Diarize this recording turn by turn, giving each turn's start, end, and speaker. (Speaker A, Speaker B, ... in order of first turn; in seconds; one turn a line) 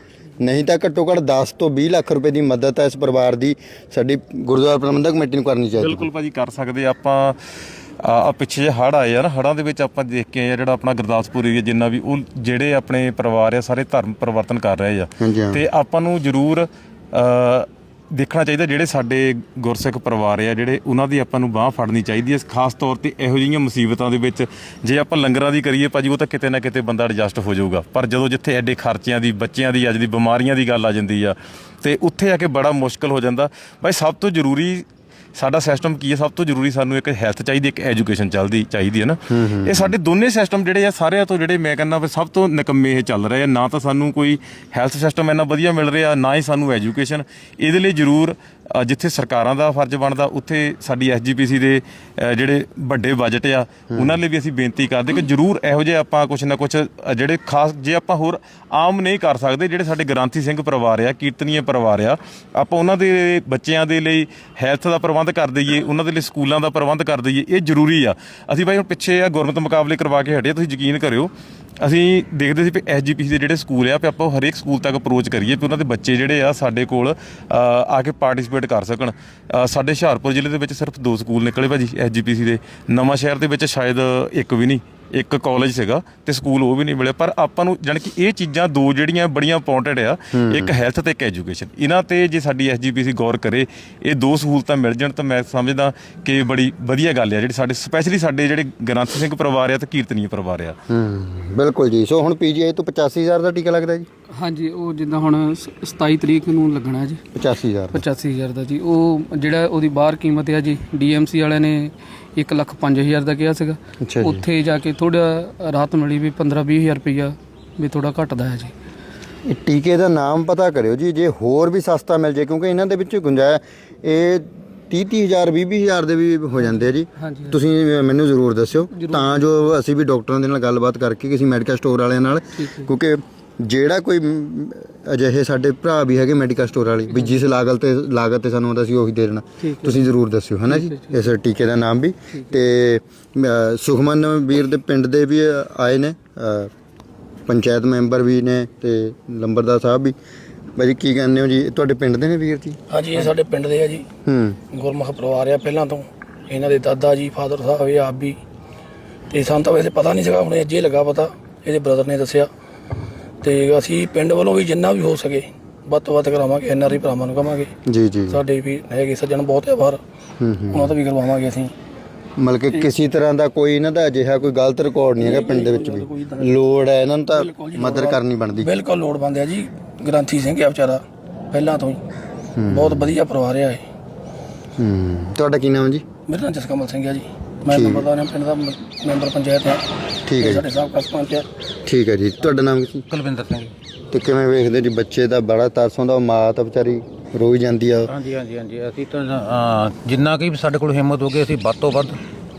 Speaker A: 0.4-6.1
Speaker B: 5.8-7.4
Speaker B: 8.0-100.8
Speaker A: 15.2-15.6
Speaker A: 39.3-39.9
Speaker A: 53.9-54.2
Speaker A: 90.3-90.7
Speaker A: 100.9-104.1
Speaker C: 104.3-107.2
Speaker A: 107.3-108.0
Speaker C: 107.9-118.7
Speaker A: 114.0-114.5
Speaker A: 119.5-146.7
Speaker C: 127.2-127.6
Speaker C: 128.9-129.7
Speaker C: 132.6-132.9
Speaker C: 139.6-140.1
Speaker C: 140.7-141.3
Speaker C: 142.3-142.6
Speaker A: 147.5-150.1
Speaker A: 150.8-152.8
Speaker D: 152.9-154.1
Speaker A: 154.3-154.6
Speaker D: 154.7-158.4
Speaker D: 159.3-162.5
Speaker D: 163.4-167.7
Speaker A: 167.9-168.4
Speaker D: 168.3-170.0
Speaker A: 170.4-170.9
Speaker D: 170.7-171.7
Speaker A: 172.4-178.7
Speaker D: 175.2-176.5
Speaker D: 177.3-182.0
Speaker A: 182.6-183.1
Speaker D: 182.7-183.8
Speaker A: 184.8-186.1
Speaker D: 186.3-189.8
Speaker A: 187.7-188.1
Speaker A: 190.3-190.6
Speaker D: 190.3-191.5
Speaker A: 191.9-193.1
Speaker E: 193.1-193.7
Speaker A: 194.1-198.1
Speaker E: 198.1-202.2